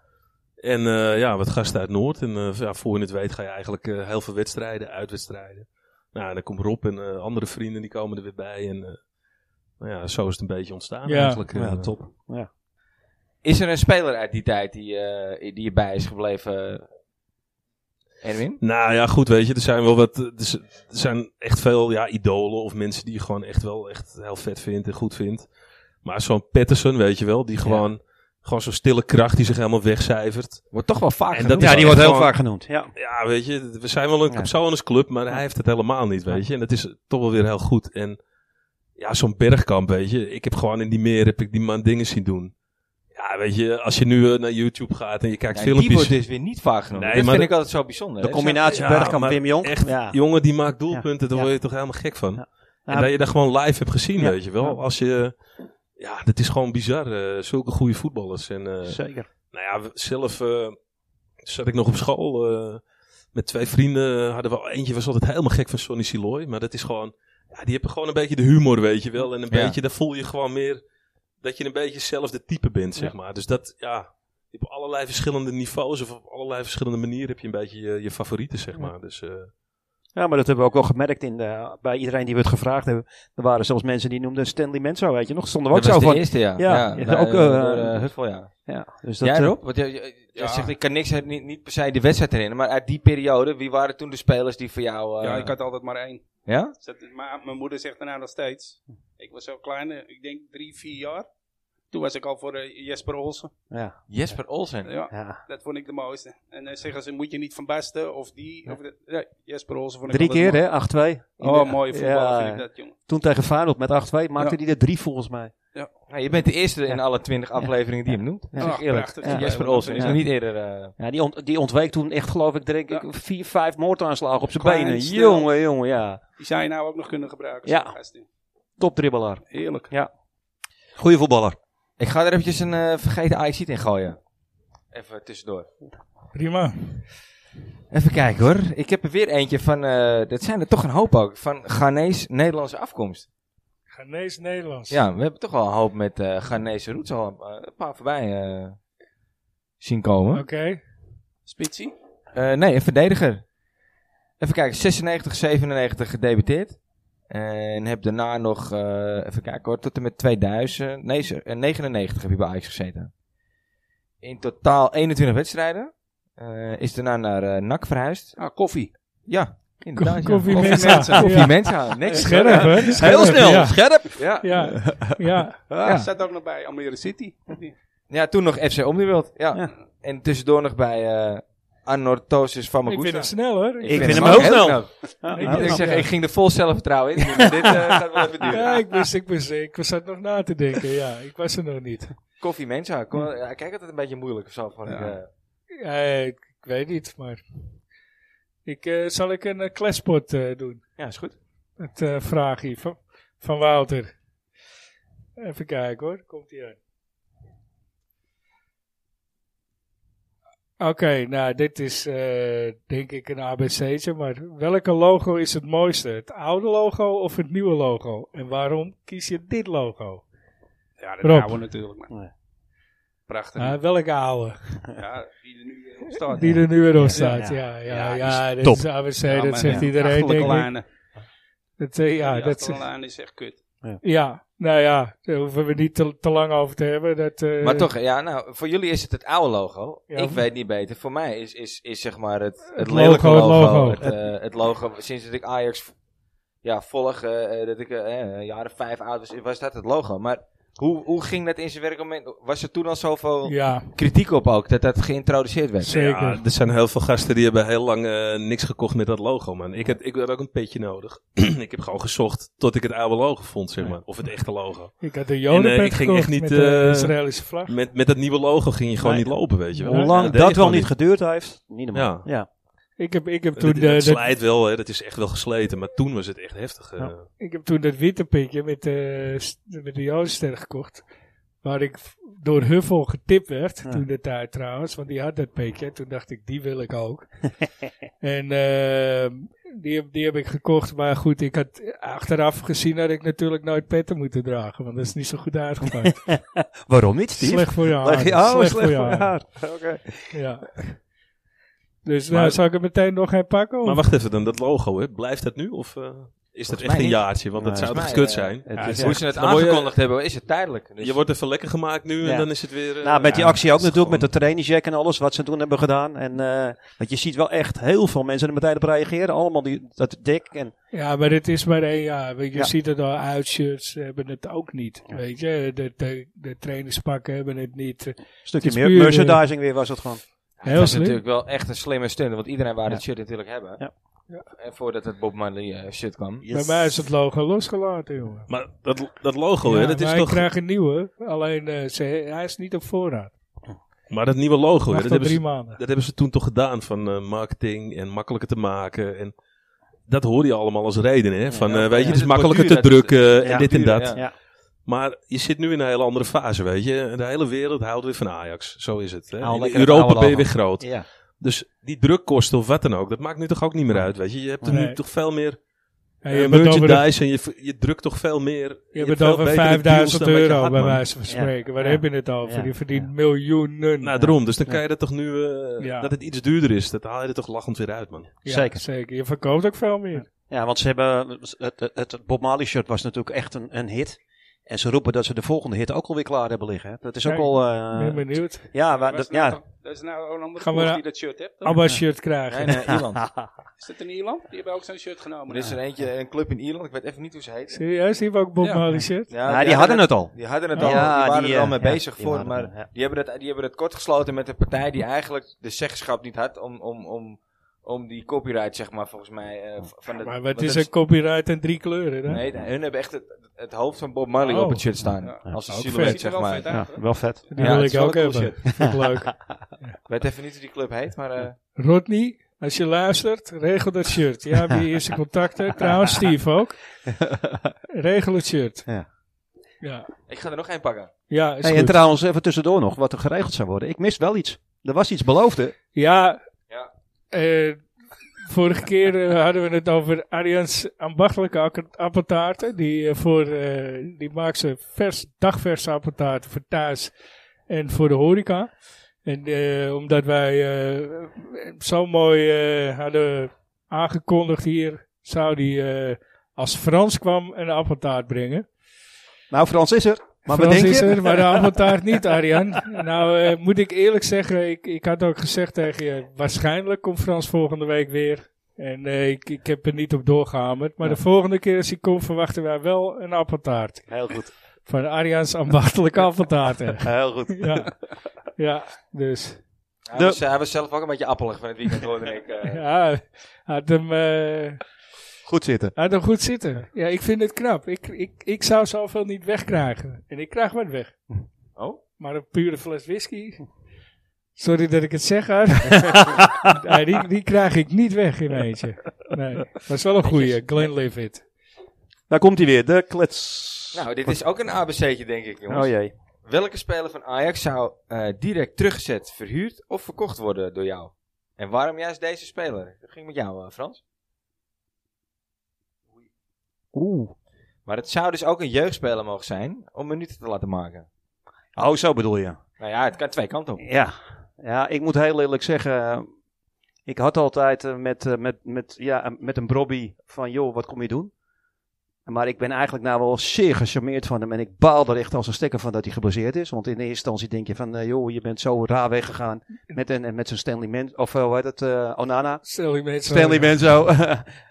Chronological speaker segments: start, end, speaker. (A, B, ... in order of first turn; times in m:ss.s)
0:00.6-0:09.0 A
0:09.8-0:12.1 A
0:11.1-0:11.4 B
0:11.5-0:12.5 C
0:13.4-0:16.9 D
0:18.2-0:18.6 D
0:18.6-0:25.4 A
0:26.0-0:30.6 A
0:30.7-0:32.1 D
0:31.3-0:32.4 A
0:31.6-0:32.9 C
0:33.0-0:38.2 A
0:39.0-0:42.5 A
0:43.2-0:46.2 A
0:45.5-0:48.7 D
0:47.0-0:47.5 A
0:48.2-0:50.2 C
0:48.6-0:55.4 A
0:50.9-0:51.6 C
0:52.4-0:53.1 C
0:54.2-0:54.8 C
0:56.0-0:59.0 A
0:58.8-0:59.3 C
0:59.5-1:00.8 A
1:01.4-1:02.8 A
1:03.3-1:10.8 A
1:09.5-1:09.8 D
1:11.4-1:19.5 A
1:20.2-1:29.6 C
1:25.7-1:35.5 D
1:30.4-1:30.7 E
1:35.2-1:41.3 E
1:36.5-1:36.7 D
1:41.9-1:43.5 E
1:43.7-1:44.0 C
1:44.1-1:44.9 D
1:44.8-1:50.8 E
1:45.1-1:45.4 C
1:50.1-1:55.5 C
1:51.4-1:53.0 E
1:56.1-2:01.0 D
1:58.5-2:00.3 C
1:58.6-2:00.3 E
2:01.0-2:06.2 C
2:04.5-2:05.5 E
2:06.4-2:08.3 E
2:07.7-2:08.0 C
2:08.8-2:10.1 C
2:09.5-2:09.9 E
2:11.0-2:11.6 C
2:12.0-2:14.2 D
2:14.9-2:15.7 D
2:16.3-2:17.1 B
2:17.9-2:23.3 D
2:23.9-2:25.0 B
2:24.9-2:28.8 D
2:29.8-2:30.4 D
2:30.3-2:30.8 B
2:31.5-2:31.9 E
2:32.3-2:33.5 D
2:34.4-2:43.1 D
2:44.2-2:48.6 D
2:48.4-2:48.9 E
2:49.2-2:55.0 D
2:50.0-2:53.8 B
2:50.4-2:53.1 E
2:52.9-2:54.2 C
2:54.4-2:55.7 B
2:55.8-2:57.8 E
2:55.8-2:56.1 D
2:58.1-3:08.8 D
3:02.9-3:06.1 B
3:03.9-3:06.0 C
3:04.3-3:05.7 E
3:08.5-3:12.1 B
3:12.4-3:15.3 D
3:14.9-3:15.2 E
3:15.8-3:17.4 B
3:18.6-3:20.8 B
3:21.0-3:21.4 D
3:21.8-3:24.1 B
3:25.4-3:26.8 B
3:30.8-3:40.2 B
3:41.0-3:42.1 E
3:41.2-3:41.6 B
3:43.3-3:43.8 E
3:43.6-3:44.8 B
3:44.9-3:48.4 E
3:46.3-3:50.7 B
3:47.0-3:49.0 C
3:49.2-3:50.9 E
3:49.6-3:50.6 C
3:51.8-3:52.8 B
3:52.2-3:53.6 E
3:54.0-3:57.9 B
3:57.6-4:05.9 D
4:00.1-4:00.4 B
4:02.7-4:04.0 B
4:06.6-4:16.0 D
4:13.5-4:13.9 B
4:15.8-4:16.4 B
4:15.9-4:30.9 A
4:25.0-4:27.8 B
4:29.1-4:30.3 B
4:29.8-4:32.5 C
4:31.9-4:32.3 A
4:33.0-4:34.2 B
4:33.6-4:37.3 A
4:37.4-4:41.0 B
4:41.6-4:47.5 B
4:48.2-4:56.4 B
4:56.0-5:00.4 C
4:57.4-4:59.3 B
5:00.3-5:00.8 B
5:02.0-5:04.0 B
5:02.3-5:02.6 A
5:03.8-5:10.0 A
5:06.7-5:11.2 D
5:07.6-5:09.2 C
5:08.8-5:09.2 B
5:11.0-5:14.3 A
5:12.2-5:20.7 C
5:20.9-5:29.4 B
5:28.5-5:30.2 C
5:30.6-5:33.8 D
5:30.6-5:31.2 B
5:34.5-5:36.5 D
5:36.4-5:36.9 C
5:36.5-5:38.5 B
5:38.5-5:40.5 A
5:39.6-5:43.3 B
5:44.1-5:49.3 A
5:44.9-5:45.8 B
5:50.1-5:54.3 A
5:51.5-5:52.2 C
5:51.7-5:54.2 D
5:53.4-5:54.3 C
5:54.9-6:05.6 A
5:59.4-6:01.1 C
6:04.7-6:05.0 B
6:06.2-6:07.0 B
6:06.3-6:11.1 A
6:08.9-6:14.1 B
6:11.3-6:13.1 C
6:14.0-6:18.3 A
6:14.2-6:14.8 C
6:15.8-6:16.1 B
6:18.4-6:20.3 B
6:18.5-6:18.8 C
6:20.4-6:29.6 C
6:27.2-6:28.7 B
6:28.8-6:31.9 E
6:30.6-6:31.0 B
6:31.6-6:32.9 B
6:32.5-6:33.3 D
6:33.2-6:33.5 C
6:33.8-6:35.7 E
6:35.5-6:37.8 D
6:37.7-6:39.3 B
6:38.6-6:38.9 E
6:39.3-6:50.9 D
6:39.4-6:42.9 C
6:40.7-6:41.1 B
6:50.2-6:52.4 B
6:52.3-6:56.8 D
6:54.4-6:54.8 B
6:55.2-6:57.8 E
6:55.7-6:56.2 B
6:56.7-6:57.5 C
6:57.5-7:00.0 B
6:57.6-6:58.9 D
7:00.1-7:01.6 D
7:01.8-7:06.9 B
7:07.1-7:07.7 C
7:07.9-7:08.9 B
7:09.8-7:10.1 B
7:10.3-7:11.1 D
7:11.3-7:12.0 B
7:11.6-7:15.8 C
7:15.9-7:16.4 B
7:17.3-7:17.9 B
7:18.4-7:27.1 B
7:27.7-7:38.7 B
7:39.5-7:41.8 C
7:40.5-7:54.2 B
7:54.1-7:54.5 C
7:54.9-7:57.9 B
7:57.0-7:57.9 C
7:58.6-7:59.6 B
8:00.1-8:02.8 D
8:00.1-8:00.4 C
8:02.7-8:04.8 B
8:05.5-8:05.9 C
8:06.0-8:11.2 B
8:11.8-8:12.0 D
8:12.2-8:13.7 B
8:14.6-8:21.4 B
8:16.0-8:16.7 C
8:20.2-8:20.9 D
8:22.3-8:24.4 C
8:23.9-8:34.0 D
8:25.7-8:26.1 C
8:36.9-8:37.3 C
8:37.9-8:41.1 D
8:41.8-8:42.6 C
8:42.8-8:43.8 D
8:43.8-8:46.3 C
8:47.1-8:51.3 C
8:52.3-9:02.6 C
9:02.6-9:03.8 B
9:03.2-9:04.5 C